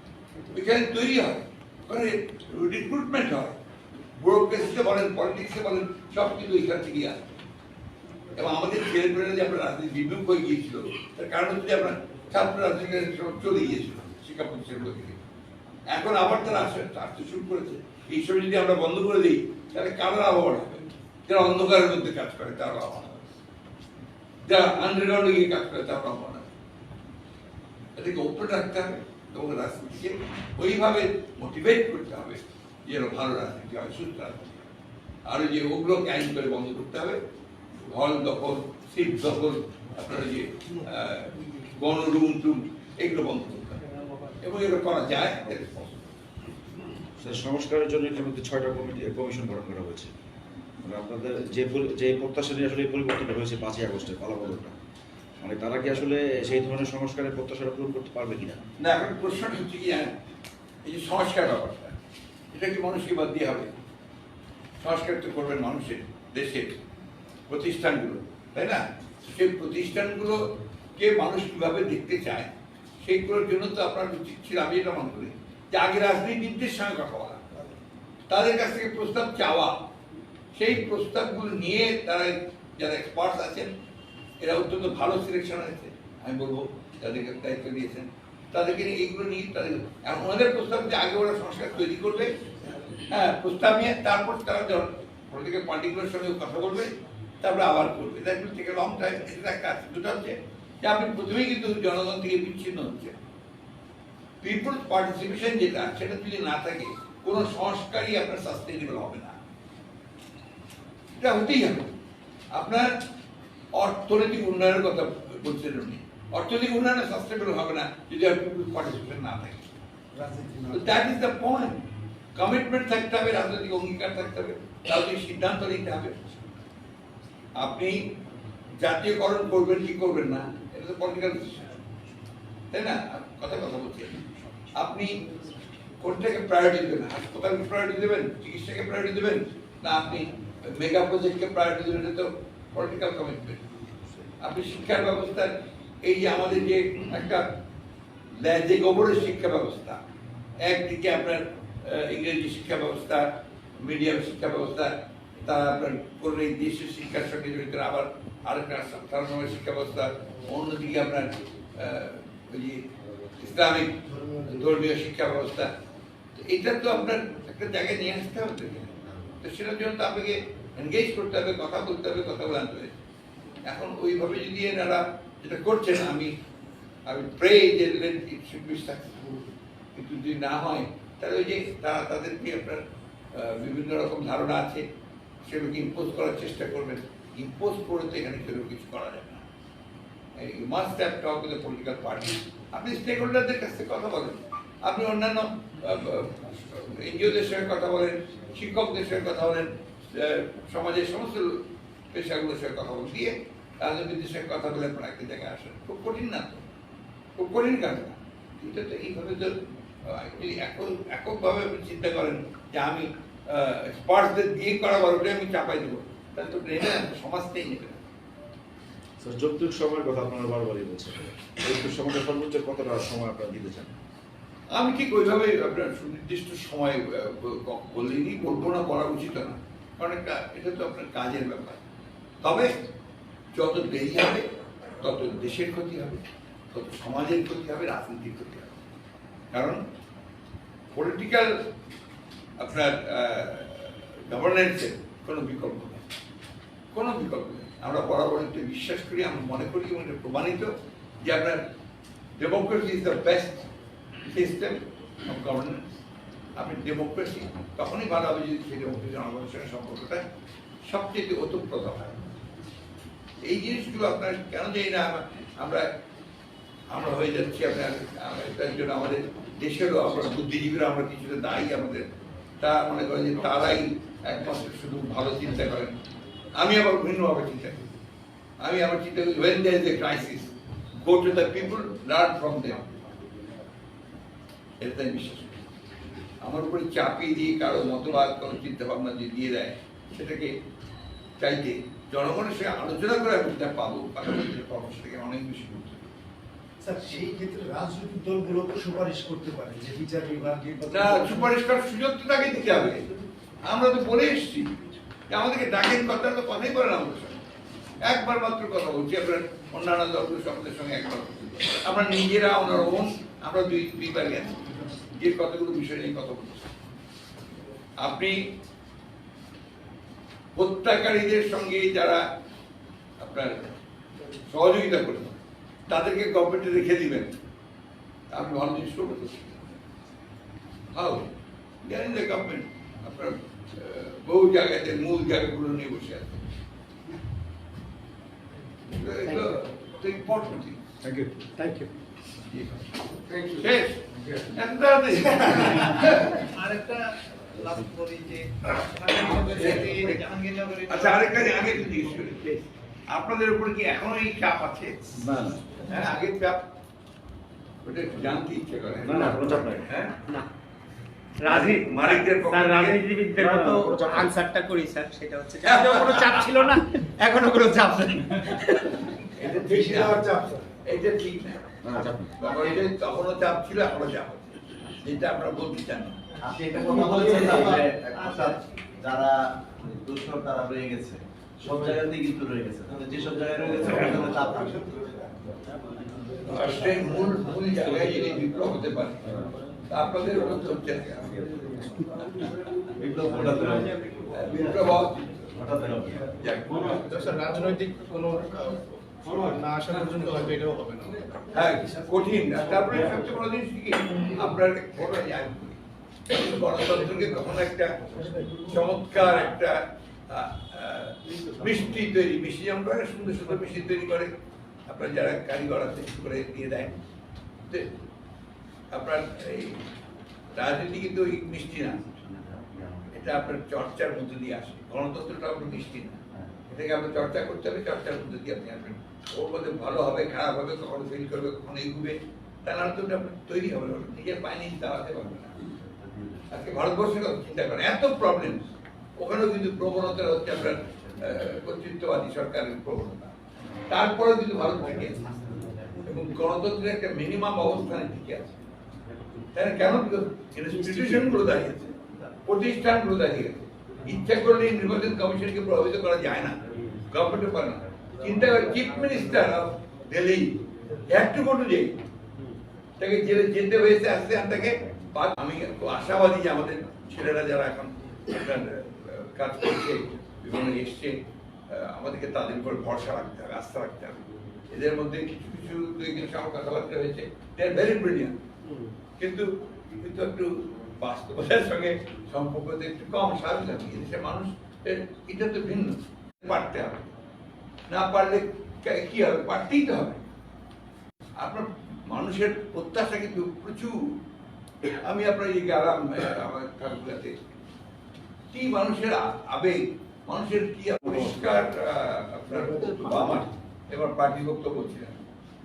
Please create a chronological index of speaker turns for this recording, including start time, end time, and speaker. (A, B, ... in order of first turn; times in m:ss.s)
0:00.5-0:03.6 A
0:04.2-0:07.3 A
0:08.4-0:15.2 A
0:15.9-0:23.2 A
0:24.4-0:26.5 A
0:28.0-0:34.6 A
0:35.2-0:37.2 A
0:37.8-0:43.8 A
0:44.4-0:46.0 A
0:47.2-0:50.1 B
0:50.8-0:54.7 B
0:55.4-0:58.6 B
0:58.8-1:00.1 A
1:00.8-1:01.9 A
1:02.5-1:03.7 A
1:04.8-1:06.7 A
1:07.5-1:10.4 A
1:11.0-1:17.5 A
1:18.3-1:19.8 A
1:20.5-1:23.7 A
1:24.4-1:32.3 A
1:32.9-1:43.2 A
1:44.4-1:49.4 A
1:51.1-1:51.9 A
1:52.5-1:53.0 A
1:53.7-1:59.7 A
2:00.1-2:00.9 C
2:00.7-2:01.8 A
2:02.3-2:06.2 A
2:07.6-2:08.1 A
2:08.8-2:11.8 A
2:12.7-2:15.2 A
2:16.0-2:23.8 A
2:24.4-2:27.5 A
2:28.3-2:30.0 A
2:30.6-2:42.9 A
2:43.4-2:45.7 A
2:44.1-2:44.7 C
2:46.4-2:53.0 A
2:53.6-2:56.3 A
2:57.1-2:59.4 A
3:00.0-3:02.8 A
3:03.3-3:04.8 A
3:05.5-3:09.5 A
3:10.4-3:26.6 A
3:27.4-3:38.0 A
3:39.2-3:43.9 B
3:44.7-3:51.8 A
3:52.4-3:52.7 A
3:53.5-3:54.5 A
3:55.0-3:58.8 A
3:59.5-3:59.8 A
4:00.9-4:01.6 A
4:02.6-4:06.0 A
4:06.9-4:11.6 A
4:12.4-4:13.7 A
4:14.3-4:15.8 A
4:16.6-4:20.2 A
4:20.9-4:22.1 A
4:23.4-4:25.9 A
4:26.9-4:32.1 A
4:32.6-4:36.0 A
4:36.6-4:37.8 A
4:38.6-4:40.5 A
4:41.0-4:42.9 A
4:44.8-4:45.6 A
4:46.4-4:50.6 A
4:51.4-4:56.1 A
4:56.8-5:01.5 C
5:00.9-5:03.1 A
5:03.6-5:04.8 A
5:05.3-5:07.4 A
5:08.0-5:14.6 A
5:15.2-5:16.7 A
5:18.0-5:18.4 A
5:20.6-5:22.2 A
5:23.2-5:23.7 A
5:24.4-5:25.4 A
5:25.9-5:27.3 A
5:28.3-5:29.8 A
5:30.9-5:31.3 A
5:31.8-5:36.4 A
5:38.8-5:40.8 A
5:41.0-5:41.9 C
5:42.4-5:42.9 A
5:43.6-5:46.4 A
5:47.6-5:48.2 D
5:49.1-5:50.3 A
5:49.4-5:49.9 C
5:50.9-5:56.6 A
5:51.0-5:51.4 D
5:55.2-5:55.6 B
5:57.8-6:00.2 A
5:59.0-5:59.9 B
6:01.4-6:08.1 E
6:01.5-6:03.0 A
6:03.4-6:04.3 B
6:05.6-6:06.6 A
6:09.0-6:10.2 A
6:09.4-6:10.7 C
6:10.8-6:11.8 A
6:11.8-6:12.4 B
6:12.4-6:16.2 A
6:16.4-6:25.3 F
6:17.3-6:17.6 A
6:17.4-6:17.7 C
6:26.4-6:29.3 A
6:29.9-6:31.4 A
6:33.0-6:34.9 F
6:34.3-6:35.2 A
6:35.5-6:36.3 F
6:36.4-6:36.9 A
6:36.8-6:41.3 D
6:41.5-6:54.3 A
6:48.1-6:48.7 C
6:54.9-6:57.0 A
6:57.6-6:57.9 A
6:58.9-6:59.8 A
7:00.6-7:02.0 A
7:02.0-7:03.2 F
7:03.1-7:06.2 A
7:06.7-7:15.6 A
7:15.7-7:16.6 F
7:16.5-7:23.4 A
7:23.9-7:25.3 A
7:26.0-7:28.5 A
7:29.5-7:31.9 A
7:32.4-7:36.6 A
7:37.1-7:41.9 A
7:43.0-7:51.2 A
7:51.7-7:58.4 A
7:59.2-8:07.1 A
8:07.9-8:10.2 A
8:11.4-8:14.0 A
8:14.9-8:17.4 A
8:18.5-8:25.2 A
8:22.5-8:23.5 C